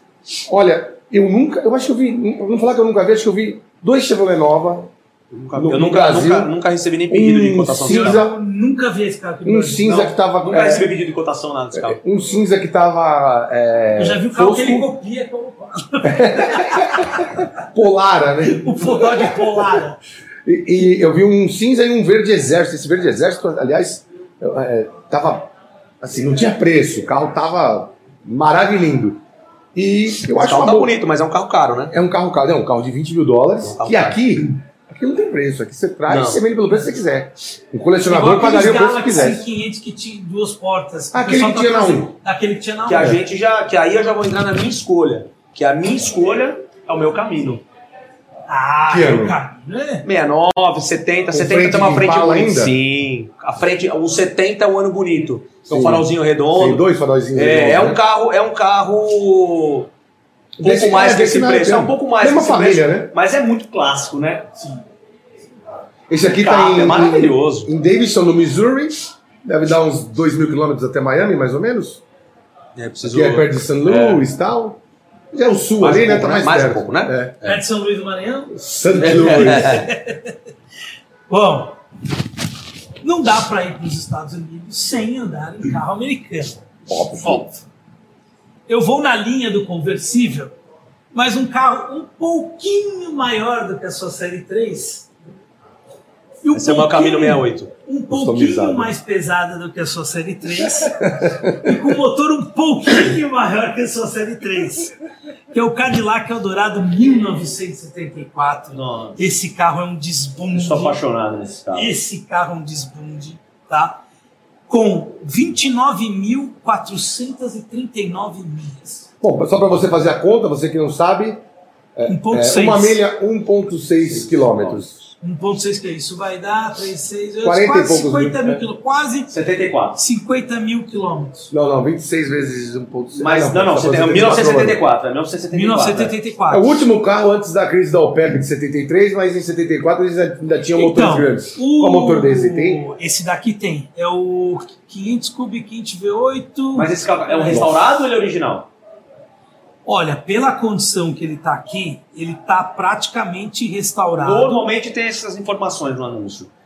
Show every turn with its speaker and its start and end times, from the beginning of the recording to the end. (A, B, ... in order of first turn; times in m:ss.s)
0:00.5-0:04.9 A
0:05.3-0:08.2 B
0:05.5-0:06.5 A
0:07.1-0:08.4 A
0:07.8-0:09.9 C
0:09.4-0:10.9 A
0:09.8-0:12.0 B
0:11.7-0:14.9 A
0:14.0-0:17.3 C
0:16.0-0:19.4 A
0:18.4-0:20.0 C
0:20.4-0:29.2 A
0:29.8-0:31.0 A
0:30.3-0:32.0 B
0:31.9-0:39.5 A
0:33.6-0:34.3 B
0:36.1-0:36.4 B
0:38.1-0:43.2 C
0:41.1-0:42.1 A
0:42.9-0:47.6 B
0:48.5-0:50.1 C
0:48.9-0:49.4 A
0:50.0-0:59.9 B
0:51.3-0:52.8 A
0:55.7-0:58.0 A
1:00.6-1:03.1 A
1:00.6-1:04.5 B
1:06.1-1:12.0 A
1:06.4-1:07.7 B
1:12.8-1:14.2 B
1:13.0-1:14.8 A
1:15.3-1:17.4 A
1:15.8-1:17.6 B
1:17.4-1:20.4 C
1:18.5-1:19.9 A
1:19.0-1:19.9 B
1:21.3-1:21.8 C
1:23.0-1:26.6 C
1:26.9-1:27.6 A
1:28.7-1:30.5 C
1:31.1-1:35.1 C
1:36.4-1:45.0 C
1:36.5-1:37.7 B
1:38.1-1:38.9 A
1:41.0-1:41.7 A
1:45.5-1:51.0 C
1:48.7-1:49.2 B
1:50.5-1:52.0 B
1:51.7-1:54.0 C
1:54.7-1:59.1 C
1:59.2-2:01.4 A
2:02.0-2:05.0 A
2:02.1-2:03.0 C
2:04.2-2:04.8 B
2:05.2-2:09.3 C
2:07.4-2:08.6 A
2:09.3-2:10.0 B
2:10.0-2:11.5 C
2:11.5-2:14.8 A
2:13.2-2:16.1 B
2:15.5-2:16.7 C
2:16.5-2:22.8 A
2:20.8-2:27.8 C
2:26.8-2:28.7 B
2:29.8-2:34.6 C
2:34.2-2:36.5 B